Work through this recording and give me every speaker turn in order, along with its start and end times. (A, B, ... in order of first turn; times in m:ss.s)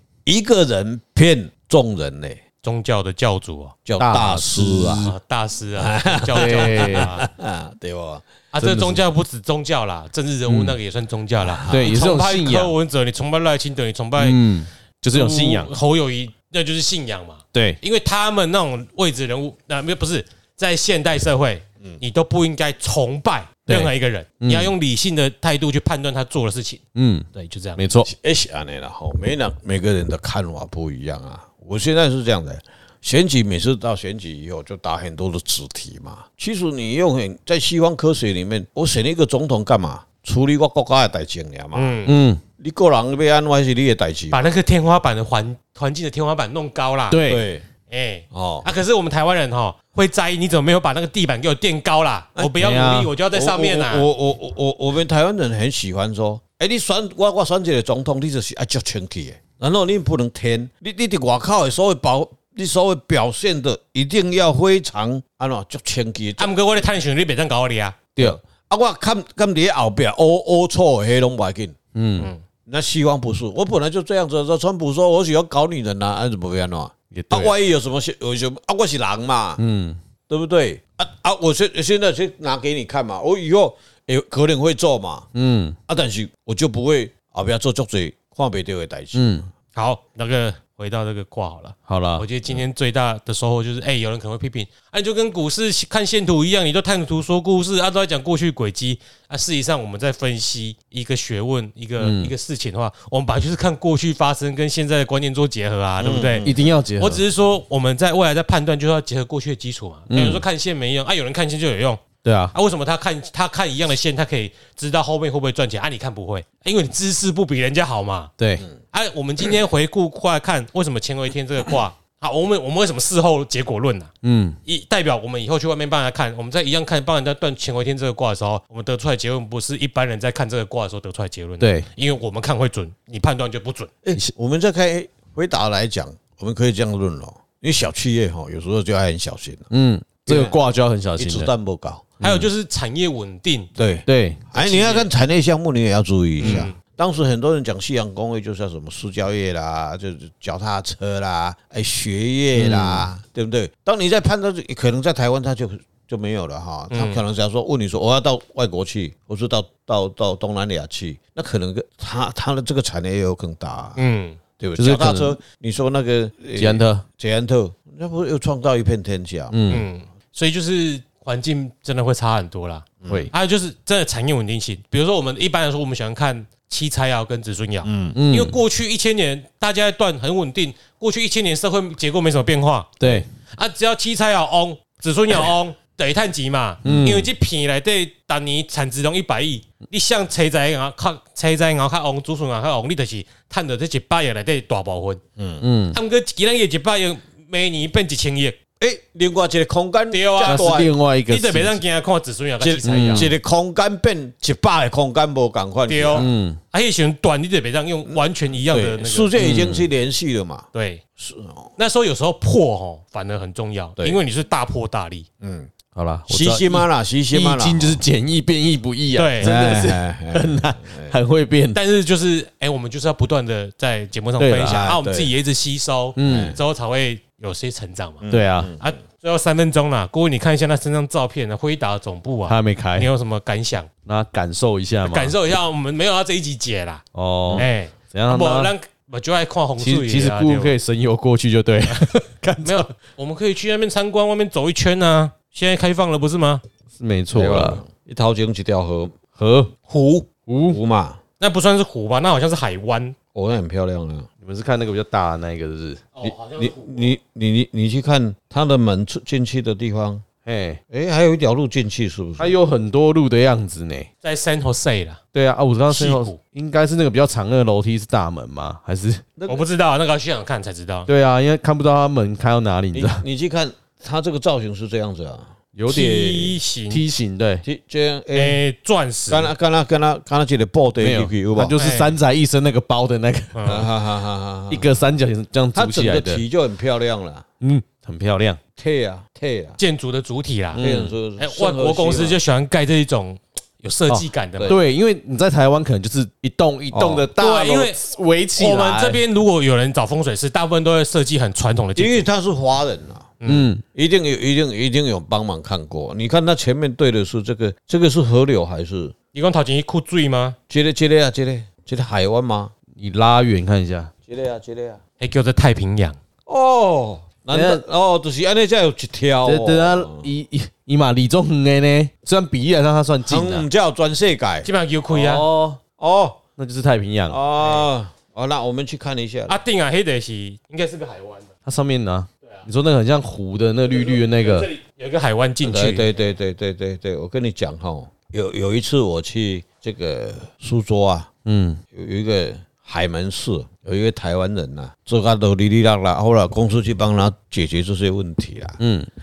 0:00.2-0:02.4 A
0:02.6-0:03.8 B
0:03.9-0:05.1 A
0:04.0-0:05.1 C
0:05.0-0:07.2 B
0:05.8-0:08.3 A
0:06.3-0:07.1 C
0:08.5-0:14.4 B
0:08.6-0:09.0 C
0:10.5-0:10.8 C
0:11.4-0:12.0 A
0:11.7-0:12.7 C
0:14.2-0:15.7 C
0:15.1-0:26.8 B
0:17.5-0:17.8 C
0:23.7-0:24.7 C
0:27.0-0:28.1 C
0:27.3-0:27.8 B
0:28.0-0:42.0 A
0:41.7-0:42.2 B
0:42.1-0:42.4 C
0:42.6-0:44.5 A
0:44.3-0:47.2 B
0:47.1-0:47.5 C
0:47.3-0:47.6 A
0:47.9-0:54.1 B
0:48.3-0:48.7 A
0:52.4-0:52.6 A
0:52.6-0:53.1 C
0:53.3-1:06.5 A
1:06.4-1:08.0 B
1:08.2-1:11.8 A
1:12.0-1:12.3 C
1:12.7-1:19.6 A
1:17.1-1:17.5 C
1:19.6-1:20.0 C
1:20.3-1:25.3 A
1:25.4-1:25.8 C
1:25.9-1:29.4 A
1:29.2-1:29.5 C
1:29.8-1:58.3 B
1:31.9-1:32.3 C
1:42.0-1:42.3 C
1:46.0-1:46.7 A
1:46.4-1:47.2 C
1:50.1-1:50.4 C
1:52.2-1:52.5 C
1:58.4-1:58.7 C
1:58.9-2:04.1 B
2:04.2-2:04.6 C
2:04.7-2:13.9 B
2:11.6-2:11.9 C
2:14.0-2:19.7 A
2:19.7-2:21.5 C
2:20.3-2:20.6 A
2:21.2-2:22.2 A
2:22.2-2:22.5 C
2:22.2-2:23.7 B
2:23.8-2:44.0 A
2:24.1-2:24.4 C
2:24.6-2:25.1 B
2:26.4-2:26.8 B
2:26.4-2:26.7 C
2:32.6-2:33.1 C
2:36.9-2:37.2 B
2:44.0-2:44.4 B
2:44.6-2:49.6 A
2:44.8-2:45.4 C
2:46.6-2:47.0 C
2:49.5-2:49.9 C
2:49.7-3:02.9 B
2:53.0-2:53.3 A
2:57.8-2:58.2 A
2:58.2-2:58.6 C
3:03.0-3:03.3 C
3:03.5-3:15.2 B
3:06.8-3:07.1 A
3:06.8-3:07.3 C
3:15.4-3:15.6 A
3:15.6-3:16.0 C
3:15.9-3:18.6 B
3:18.8-3:20.9 A
3:20.1-3:23.3 B
3:20.4-3:21.8 C
3:22.6-3:26.3 A
3:22.9-3:23.3 C
3:25.9-3:29.4 B
3:26.2-3:26.6 C
3:28.1-3:31.7 A
3:29.4-3:29.9 C
3:30.7-3:31.0 B
3:31.8-3:35.3 B
3:35.4-3:35.7 A
3:35.9-3:41.8 C
3:36.3-3:38.0 A
3:39.2-3:39.5 B
3:39.4-3:41.2 A
3:41.7-3:48.2 B
3:44.4-3:44.9 C
3:44.7-3:45.3 A
3:46.2-3:46.6 C
3:46.2-3:46.6 A
3:48.2-3:48.9 A
3:48.3-3:48.7 C
3:48.8-3:53.9 B
3:52.5-3:53.1 C
3:54.1-3:55.4 C
3:55.1-3:57.0 B
3:57.1-3:58.7 C
3:57.6-4:00.7 B
3:59.8-4:02.9 C
4:01.9-4:06.6 B
4:07.0-4:07.8 C
4:07.3-4:09.2 A
4:09.4-4:09.7 C
4:09.9-4:10.3 B
4:10.5-4:10.8 C
4:10.7-4:11.2 A
4:11.4-4:13.2 B
4:13.3-4:14.3 A
4:14.4-4:16.1 C
4:16.2-4:17.1 B
4:16.6-4:20.3 A
4:20.4-4:20.8 C
4:20.9-4:22.6 A
4:22.4-4:24.1 C
4:24.2-4:25.2 B
4:25.3-4:29.4 C
4:25.9-4:26.4 B
4:29.4-4:29.6 A
4:29.5-4:31.1 B
4:31.1-4:33.2 C
4:32.9-4:35.6 A
4:35.8-4:37.6 C
4:35.9-4:37.0 B
4:37.6-4:38.6 A
4:38.3-4:39.5 B
4:39.3-4:41.9 A
4:41.0-4:43.9 C
4:41.8-4:42.2 B
4:43.6-4:43.8 B
4:43.7-4:45.2 A
4:44.7-4:46.4 C
4:45.8-4:47.4 A
4:47.6-4:48.6 C
4:48.8-4:49.8 A
4:49.8-4:50.8 B
4:50.7-4:51.2 C
4:50.8-4:52.4 A
4:51.4-4:54.8 B
4:54.1-4:59.2 C
4:54.6-4:54.8 A
4:56.9-4:57.3 A
4:57.4-4:58.0 B
4:58.6-5:02.3 B
5:02.0-5:03.4 A
5:03.4-5:03.7 B
5:03.5-5:03.8 C
5:03.9-5:09.1 A
5:09.3-5:10.6 B
5:10.7-5:12.7 A
5:13.0-5:14.1 C
5:14.3-5:15.0 A
5:15.2-5:16.2 B
5:16.5-5:20.3 A
5:17.5-5:17.8 C
5:19.4-5:23.7 C
5:23.2-5:24.7 A
5:24.6-5:25.5 B
5:25.1-5:25.8 C
5:26.0-5:26.4 A
5:26.6-5:27.4 C
5:27.3-5:29.6 A
5:29.5-5:31.5 B
5:31.7-5:34.7 C
5:34.4-5:36.1 B
5:35.6-5:41.3 A
5:41.5-5:41.8 C
5:41.9-5:48.8 A
5:48.8-5:49.1 C